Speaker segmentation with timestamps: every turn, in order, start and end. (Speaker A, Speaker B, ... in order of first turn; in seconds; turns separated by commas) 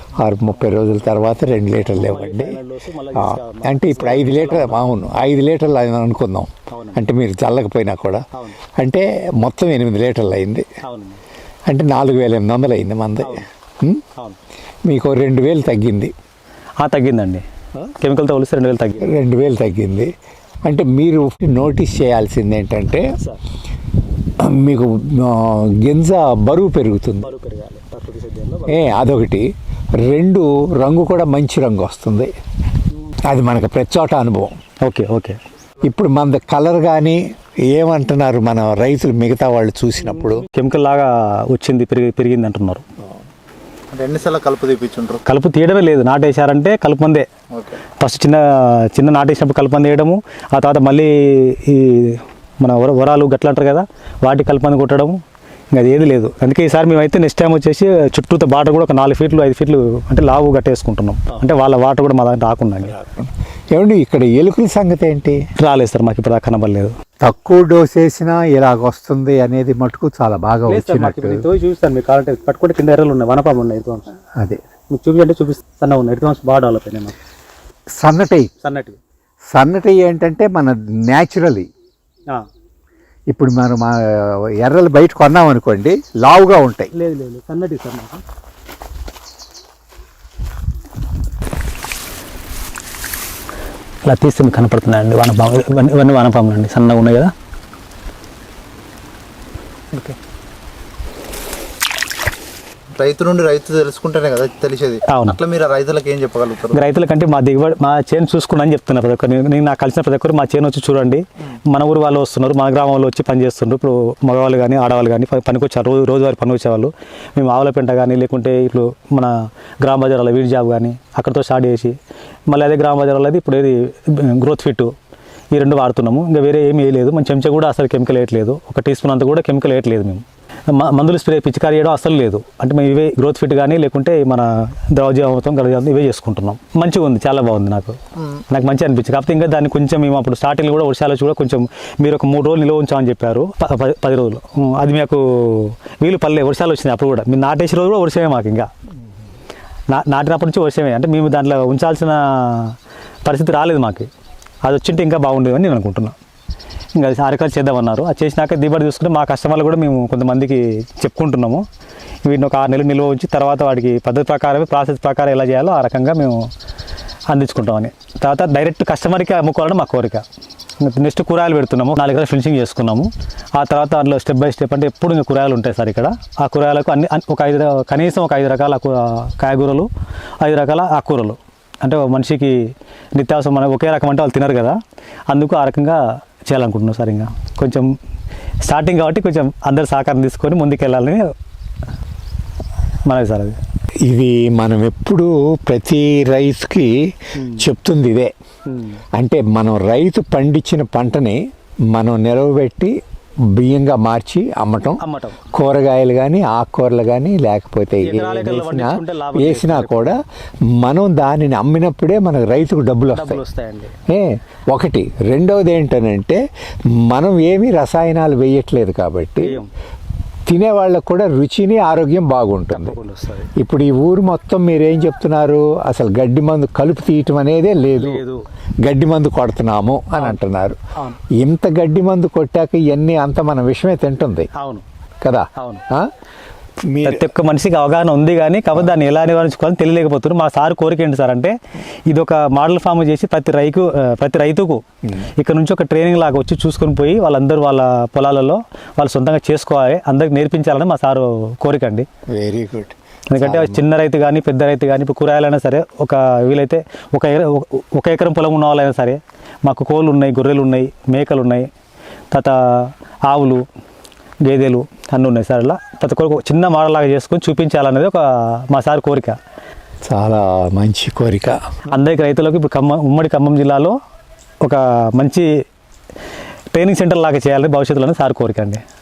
Speaker A: 0.2-2.6, Speaker B: 1.9-4.8, Speaker A: 3.1-8.2, Speaker B: 6.7-7.0, Speaker B: 8.3-8.6, Speaker A: 8.8-10.7, Speaker B: 10.8-11.2, Speaker A: 11.7-14.0, Speaker B: 13.2-13.5, Speaker A: 14.9-16.1, Speaker B: 16.8-17.4, Speaker B: 18.0-19.1, Speaker A: 19.0-20.1, Speaker A: 20.6-23.1, Speaker B: 23.2-23.4, Speaker A: 24.4-27.3, Speaker B: 27.2-29.0, Speaker A: 28.7-29.5, Speaker A: 30.0-32.3, Speaker A: 33.2-34.6, Speaker B: 34.8-35.4, Speaker A: 35.8-40.5, Speaker B: 40.0-42.9, Speaker C: 43.9-45.2, Speaker B: 45.2-47.3, Speaker C: 47.5-47.8, Speaker B: 48.0-55.2, Speaker B: 55.7-63.0, Speaker A: 62.8-65.4, Speaker B: 65.6-66.9, Speaker A: 67.2-71.5, Speaker B: 70.7-74.2, Speaker B: 74.9-77.2, Speaker A: 78.0-78.5, Speaker B: 78.6-79.0, Speaker A: 79.5-81.7, Speaker A: 83.3-86.9, Speaker B: 86.9-88.2, Speaker B: 94.0-97.3, Speaker C: 103.0-106.8, Speaker B: 105.1-105.4, Speaker B: 106.7-122.0, Speaker B: 122.5-124.9, Speaker B: 125.5-138.0, Speaker B: 138.5-148.7, Speaker B: 149.9-154.1, Speaker B: 154.6-156.2, Speaker B: 156.9-161.7, Speaker B: 162.2-166.5, Speaker B: 167.3-170.3, Speaker B: 170.8-179.9, Speaker B: 180.4-184.8, Speaker B: 185.3-187.9, Speaker B: 188.6-191.3, Speaker B: 193.1-193.6, Speaker A: 194.1-198.3, Speaker B: 197.4-197.7, Speaker B: 198.7-199.0, Speaker A: 199.1-201.4, Speaker A: 201.9-203.0, Speaker A: 203.5-210.2, Speaker B: 205.0-205.4, Speaker B: 208.0-210.1, Speaker A: 210.8-213.4, Speaker B: 213.1-213.9, Speaker A: 214.1-216.4, Speaker A: 216.9-219.7, Speaker B: 219.4-219.7, Speaker A: 220.5-223.0, Speaker B: 222.7-223.5, Speaker A: 223.6-228.2, Speaker B: 228.0-228.4, Speaker A: 228.8-230.8, Speaker B: 230.2-230.4, Speaker A: 231.4-234.5, Speaker B: 234.6-234.8, Speaker A: 235.2-236.1, Speaker B: 235.6-235.8, Speaker A: 236.8-237.3, Speaker B: 237.0-241.6, Speaker B: 242.1-252.1, Speaker A: 252.3-253.9, Speaker B: 253.3-261.7, Speaker B: 262.3-263.6, Speaker B: 264.4-269.4, Speaker A: 270.1-271.6, Speaker B: 271.9-274.0, Speaker B: 274.6-275.5, Speaker B: 276.7-278.8